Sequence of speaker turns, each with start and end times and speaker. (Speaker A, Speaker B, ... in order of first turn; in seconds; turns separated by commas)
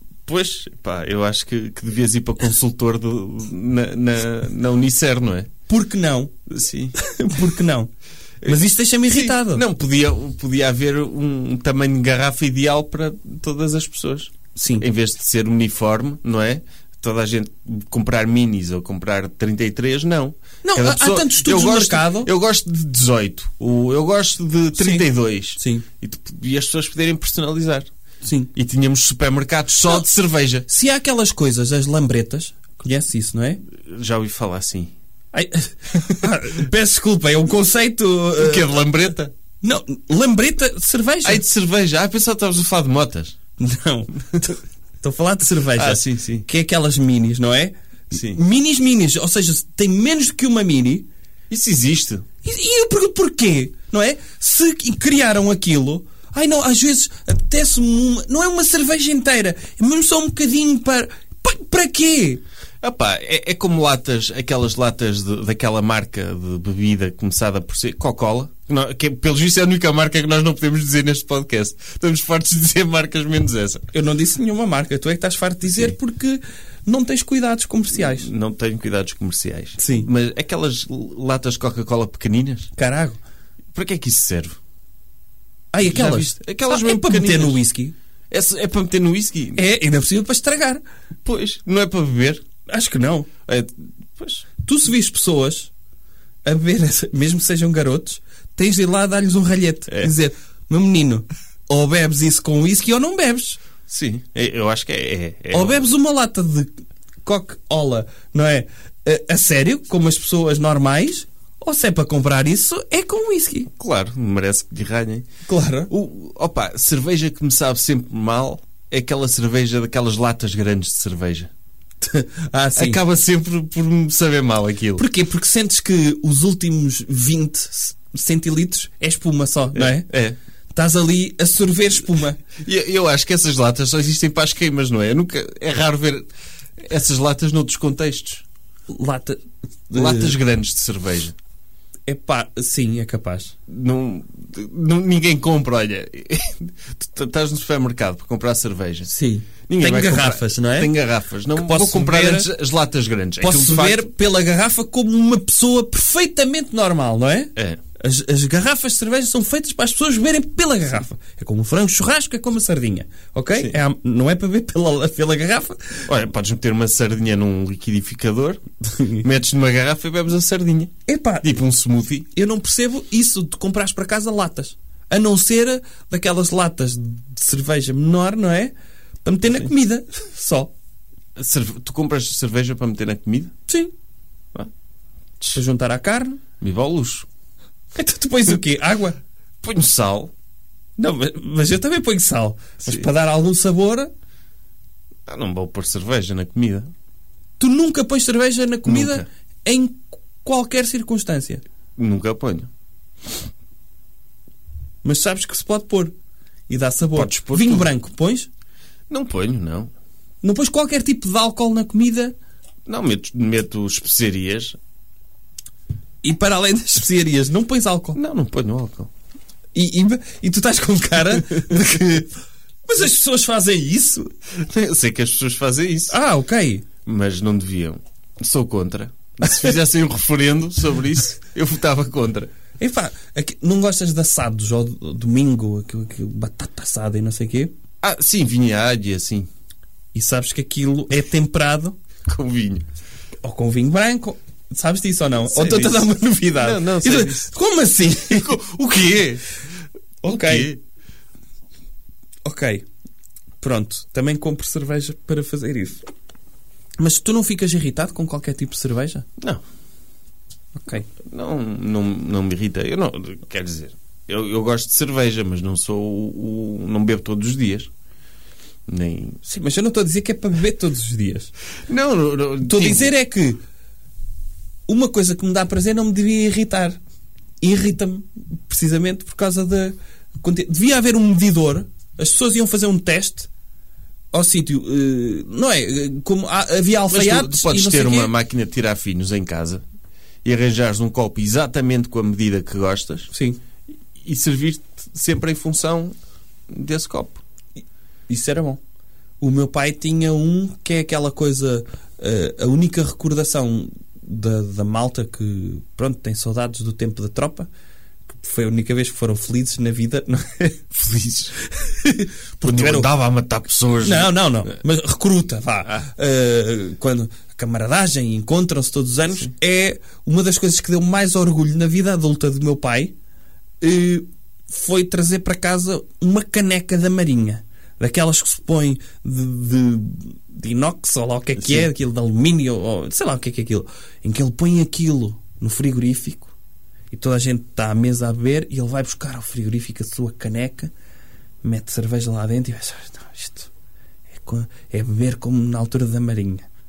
Speaker A: 0.3-5.5, Speaker B: 5.7-6.3, Speaker A: 6.5-7.0, Speaker B: 6.9-7.9, Speaker B: 8.4-9.6, Speaker A: 9.1-27.9, Speaker B: 14.5-14.9, Speaker B: 20.6-22.3, Speaker B: 24.8-25.8, Speaker B: 28.2-28.5, Speaker A: 28.5-30.6, Speaker B: 30.7-33.6, Speaker A: 33.8-34.9, Speaker B: 35.3-38.9, Speaker A: 38.4-39.3, Speaker B: 39.6-41.4, Speaker A: 41.2-43.4, Speaker B: 43.6-51.1, Speaker A: 45.7-46.5, Speaker A: 48.1-48.4, Speaker A: 51.5-52.2, Speaker B: 52.4-62.4, Speaker A: 62.8-73.9, Speaker B: 73.9-78.3, Speaker A: 77.9-82.7, Speaker B: 79.8-80.1, Speaker B: 82.8-83.2, Speaker A: 83.7-84.6, Speaker B: 85.7-87.9, Speaker A: 85.8-87.6, Speaker A: 88.3-89.6, Speaker B: 89.5-90.8, Speaker A: 91.2-92.4, Speaker B: 92.7-93.3, Speaker A: 93.5-94.5, Speaker B: 94.6-95.7, Speaker B: 96.4-103.6, Speaker A: 103.9-105.9, Speaker B: 105.5-106.7, Speaker B: 107.2-113.7, Speaker A: 113.8-115.2, Speaker B: 115.5-115.9, Speaker A: 115.9-121.5, Speaker B: 122.0-123.0, Speaker A: 122.8-125.0, Speaker B: 125.0-130.1, Speaker A: 129.7-130.4, Speaker B: 130.7-132.4, Speaker A: 132.6-136.3, Speaker A: 136.8-138.4, Speaker B: 138.9-140.4, Speaker A: 139.9-141.3, Speaker B: 142.1-143.5, Speaker A: 143.7-149.1, Speaker B: 149.1-150.9, Speaker A: 149.7-154.1, Speaker B: 151.5-152.5, Speaker B: 153.4-166.1, Speaker A: 166.1-172.3, Speaker B: 171.1-171.5, Speaker B: 172.3-178.7, Speaker B: 179.2-180.7, Speaker A: 181.4-183.5, Speaker B: 185.5-186.4, Speaker A: 186.6-187.2, Speaker B: 187.9-189.2, Speaker A: 189.6-190.3, Speaker B: 191.0-194.1, Speaker A: 195.3-196.9, Speaker B: 197.6-201.6, Speaker A: 198.8-199.2, Speaker A: 202.0-202.7, Speaker B: 205.0-206.1, Speaker B: 206.7-208.5, Speaker A: 207.1-207.9, Speaker A: 209.1-209.9, Speaker B: 210.4-212.3, Speaker A: 212.9-214.8, Speaker B: 216.2-218.2, Speaker A: 218.1-219.1, Speaker B: 219.7-222.3, Speaker B: 222.8-224.3, Speaker A: 224.6-226.2, Speaker B: 226.1-226.8, Speaker A: 227.0-232.5, Speaker B: 232.8-237.7, Speaker A: 238.0-239.5, Speaker B: 240.1-242.0, Speaker A: 242.3-242.8, Speaker B: 243.4-248.6, Speaker A: 245.5-247.5, Speaker A: 248.2-249.4, Speaker B: 250.2-250.7, Speaker A: 250.2-250.8, Speaker B: 252.4-252.8, Speaker B: 253.6-256.0, Speaker B: 257.0-259.2, Speaker B: 260.7-261.1, Speaker A: 261.2-267.9, Speaker A: 268.9-269.4, Speaker B: 269.4-271.5, Speaker A: 271.9-273.1, Speaker B: 272.6-273.6, Speaker B: 274.9-277.0, Speaker B: 277.6-283.5, Speaker B: 284.3-288.3, Speaker A: 287.1-289.8, Speaker A: 290.4-293.3, Speaker B: 293.3-293.6, Speaker A: 294.2-296.1, Speaker A: 296.7-297.4, Speaker B: 298.3-298.8, Speaker B: 299.4-307.7, Speaker B: 308.3-310.8, Speaker A: 310.9-311.5, Speaker B: 311.7-313.1, Speaker A: 312.6-314.7, Speaker B: 314.0-323.1, Speaker B: 323.8-336.5, Speaker A: 331.6-331.9, Speaker B: 337.1-340.9, Speaker B: 341.6-343.7, Speaker B: 344.3-346.6